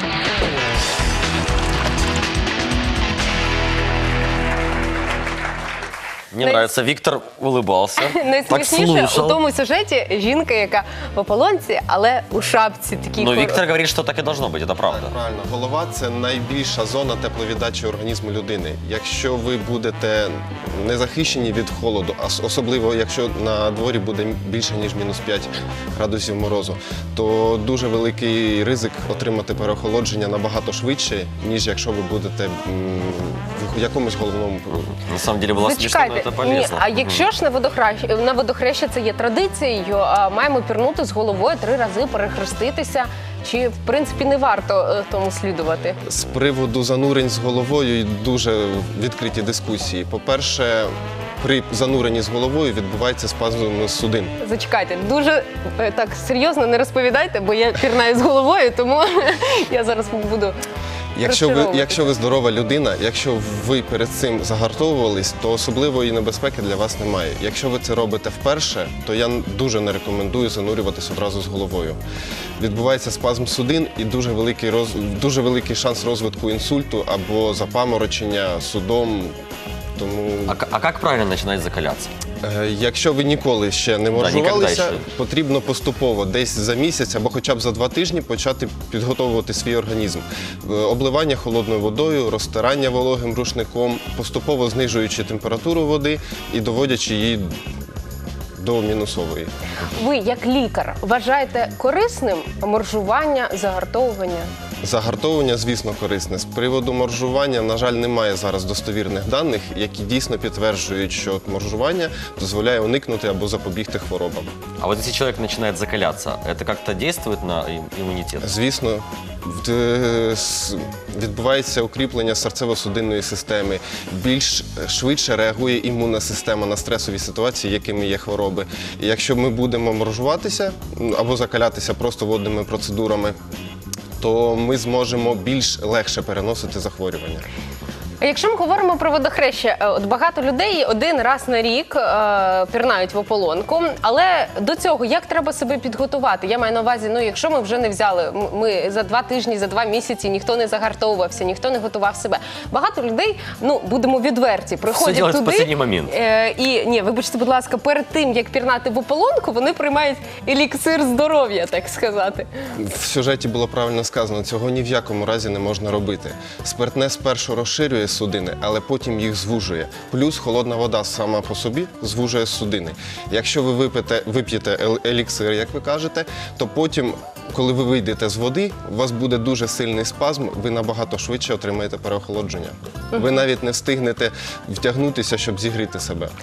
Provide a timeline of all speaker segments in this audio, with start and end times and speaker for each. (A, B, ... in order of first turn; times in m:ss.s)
0:06.3-0:09.4 A
0:06.4-0:06.7 B
0:08.0-0:13.6 B
0:13.2-0:15.1 A
0:14.9-0:34.9 C
0:35.1-0:37.1 A
0:35.5-0:46.0 B
0:46.0-0:54.4 C
0:54.4-1:00.6 B
1:01.2-1:12.0 C
1:01.2-1:02.1 B
1:12.6-1:19.4 C
1:20.0-1:20.6 C
1:20.5-1:22.1 A
1:22.4-1:37.5 C
1:24.1-1:25.0 A
1:38.6-1:39.5 C
1:39.9-1:44.5 B
1:44.8-1:54.5 C
1:54.8-1:58.5 A
1:58.4-2:13.4 C
2:14.2-2:17.5 C
2:18.2-2:42.5 B
2:34.8-2:36.1 A
2:42.8-3:06.3 C